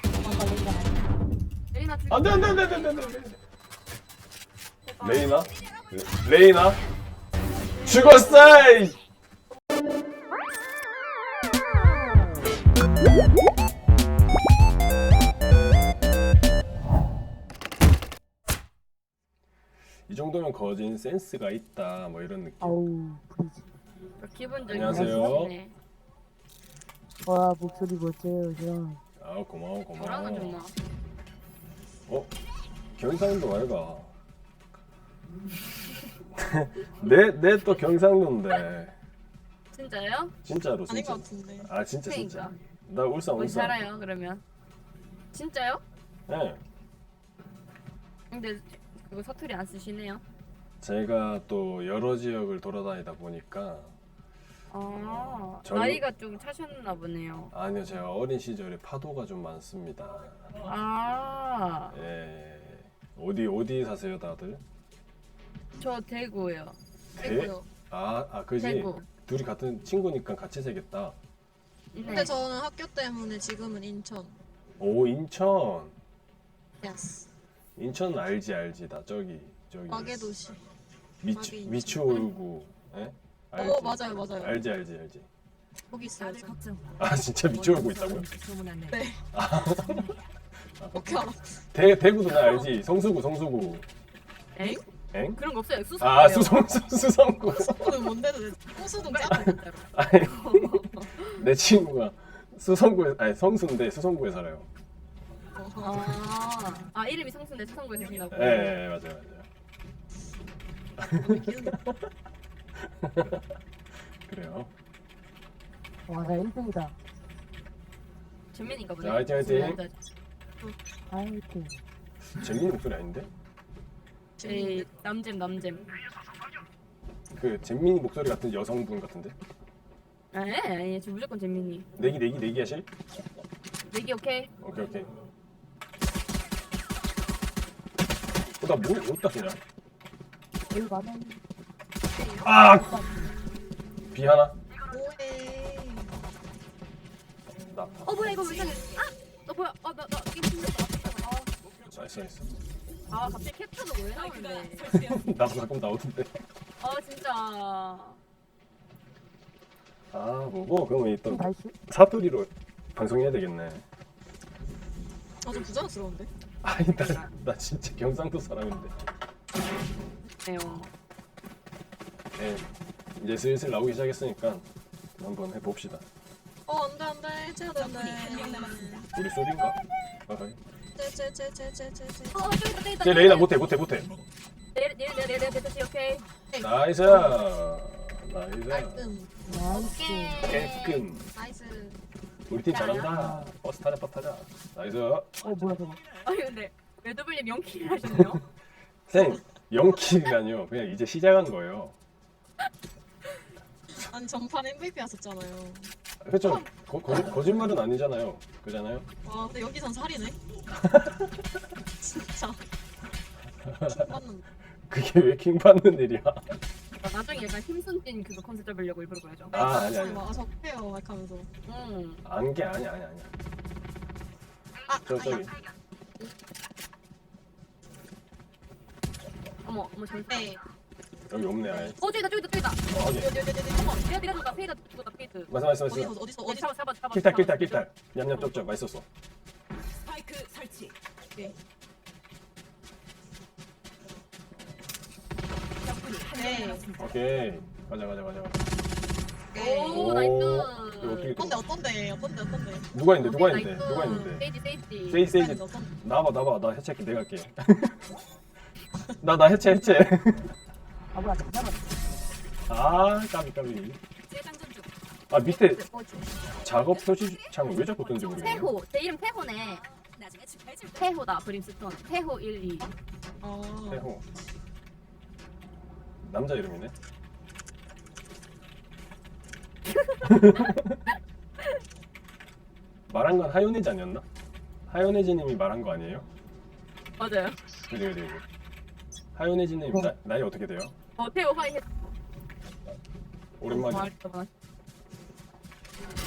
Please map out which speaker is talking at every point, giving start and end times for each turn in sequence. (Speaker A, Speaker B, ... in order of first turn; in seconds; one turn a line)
Speaker A: 0.2-1.1
Speaker B: 1.7-3.2
Speaker C: 2.1-3.4
Speaker B: 4.8-5.4
Speaker C: 5.0-6.8
Speaker D: 5.5-6.2
Speaker B: 7.7-8.6
Speaker C: 7.8-9.0
Speaker C: 20.1-22.8
Speaker A: 22.6-23.7
Speaker B: 24.2-25.8
Speaker C: 24.6-25.5
Speaker A: 24.9-25.4
Speaker A: 27.2-29.0
Speaker C: 29.2-30.6
Speaker B: 30.0-30.7
Speaker C: 32.1-32.3
Speaker C: 33.0-34.1
Speaker C: 36.3-39.0
Speaker B: 39.7-40.3
Speaker C: 40.4-43.8
Speaker E: 40.9-41.7
Speaker B: 42.1-42.6
Speaker B: 43.4-44.4
Speaker B: 45.3-45.8
Speaker C: 46.3-46.6
Speaker B: 48.3-50.2
Speaker C: 50.8-53.9
Speaker B: 54.7-57.5
Speaker C: 54.9-56.0
Speaker C: 57.5-60.5
Speaker B: 60.6-62.0
Speaker C: 61.9-64.6
Speaker B: 65.8-66.8
Speaker C: 67.2-71.2
Speaker E: 67.2-67.7
Speaker B: 68.6-69.1
Speaker B: 71.9-72.4
Speaker E: 72.0-74.4
Speaker C: 74.8-76.0
Speaker E: 76.8-77.3
Speaker C: 77.8-80.3
Speaker E: 79.9-80.6
Speaker C: 81.2-85.3
Speaker E: 81.3-82.3
Speaker E: 83.5-84.6
Speaker E: 85.9-86.6
Speaker D: 86.1-90.3
Speaker C: 87.0-88.3
Speaker A: 88.2-89.0
Speaker E: 88.9-89.2
Speaker C: 89.3-90.0
Speaker C: 90.8-93.9
Speaker E: 90.9-91.6
Speaker B: 94.5-94.8
Speaker C: 95.1-95.4
Speaker B: 95.3-96.8
Speaker C: 96.0-98.2
Speaker E: 97.5-99.6
Speaker B: 98.9-101.4
Speaker C: 99.4-104.7
Speaker E: 105.5-106.2
Speaker B: 105.8-108.8
Speaker C: 108.3-109.5
Speaker C: 111.0-112.1
Speaker E: 111.1-111.8
Speaker C: 112.8-113.5
Speaker C: 114.2-114.7
Speaker A: 116.1-117.0
Speaker B: 118.5-119.9
Speaker C: 119.0-119.8
Speaker A: 121.1-121.8
Speaker C: 122.3-123.3
Speaker E: 124.4-124.9
Speaker B: 124.4-125.9
Speaker C: 127.3-129.3
Speaker B: 130.3-131.9
Speaker C: 132.0-132.9
Speaker B: 133.9-134.5
Speaker C: 134.6-135.1
Speaker C: 138.6-139.6
Speaker A: 140.7-141.4
Speaker B: 142.2-142.5
Speaker C: 142.4-143.0
Speaker A: 142.7-143.4
Speaker C: 144.1-144.6
Speaker E: 144.9-146.2
Speaker C: 147.7-148.3
Speaker B: 148.1-151.5
Speaker C: 151.8-152.5
Speaker B: 153.1-154.9
Speaker D: 154.1-155.3
Speaker C: 154.9-156.4
Speaker B: 156.8-158.2
Speaker C: 160.1-163.8
Speaker A: 161.3-161.8
Speaker E: 165.4-166.3
Speaker C: 166.6-169.0
Speaker B: 166.9-167.3
Speaker B: 170.4-170.9
Speaker C: 172.4-172.7
Speaker C: 173.2-174.7
Speaker C: 175.2-176.1
Speaker E: 176.7-179.1
Speaker D: 177.8-179.1
Speaker C: 179.2-180.6
Speaker E: 180.9-182.5
Speaker B: 182.3-183.6
Speaker C: 183.0-184.2
Speaker B: 184.7-186.3
Speaker E: 186.5-187.4
Speaker C: 186.6-189.1
Speaker E: 188.7-189.3
Speaker A: 189.5-190.5
Speaker B: 189.7-191.1
Speaker C: 190.4-191.3
Speaker E: 191.3-192.0
Speaker C: 192.5-195.3
Speaker B: 192.7-193.2
Speaker A: 193.0-193.5
Speaker A: 195.4-196.0
Speaker B: 196.2-198.4
Speaker C: 199.1-202.0
Speaker E: 204.0-205.9
Speaker C: 206.2-209.1
Speaker E: 209.2-210.4
Speaker C: 210.7-211.4
Speaker E: 212.0-212.6
Speaker C: 213.6-214.1
Speaker E: 213.9-214.4
Speaker C: 214.9-216.4
Speaker B: 217.0-219.6
Speaker E: 219.5-221.5
Speaker C: 219.5-220.3
Speaker B: 221.7-222.2
Speaker C: 222.2-223.3
Speaker E: 224.9-225.5
Speaker C: 225.1-225.5
Speaker B: 229.6-230.6
Speaker E: 230.3-230.6
Speaker C: 231.3-232.0
Speaker E: 231.6-232.0
Speaker B: 232.0-232.9
Speaker C: 232.9-233.3
Speaker E: 233.1-234.2
Speaker B: 233.9-235.5
Speaker C: 235.5-236.2
Speaker E: 235.8-236.7
Speaker B: 236.4-238.7
Speaker C: 237.1-239.1
Speaker D: 239.9-240.9
Speaker D: 245.8-247.2
Speaker E: 246.3-246.9
Speaker C: 247.0-248.6
Speaker E: 249.5-250.1
Speaker B: 249.6-251.4
Speaker C: 249.8-251.6
Speaker E: 251.3-252.9
Speaker C: 252.9-254.5
Speaker B: 253.2-255.3
Speaker C: 255.1-258.1
Speaker E: 255.3-255.9
Speaker C: 259.2-260.5
Speaker A: 261.1-261.9
Speaker C: 262.7-264.0
Speaker D: 264.3-264.9
Speaker C: 265.3-265.8
Speaker B: 265.4-266.3
Speaker C: 266.6-268.7
Speaker D: 266.6-268.7
Speaker B: 268.4-269.8
Speaker D: 269.6-271.2
Speaker B: 271.0-272.9
Speaker E: 272.8-274.1
Speaker C: 273.9-274.2
Speaker C: 276.2-276.9
Speaker B: 280.1-280.8
Speaker C: 280.2-281.0
Speaker C: 283.1-284.2
Speaker C: 284.9-286.3
Speaker B: 287.2-287.6
Speaker C: 287.9-288.4
Speaker C: 289.4-290.9
Speaker B: 291.2-291.8
Speaker C: 293.6-294.1
Speaker B: 293.6-294.5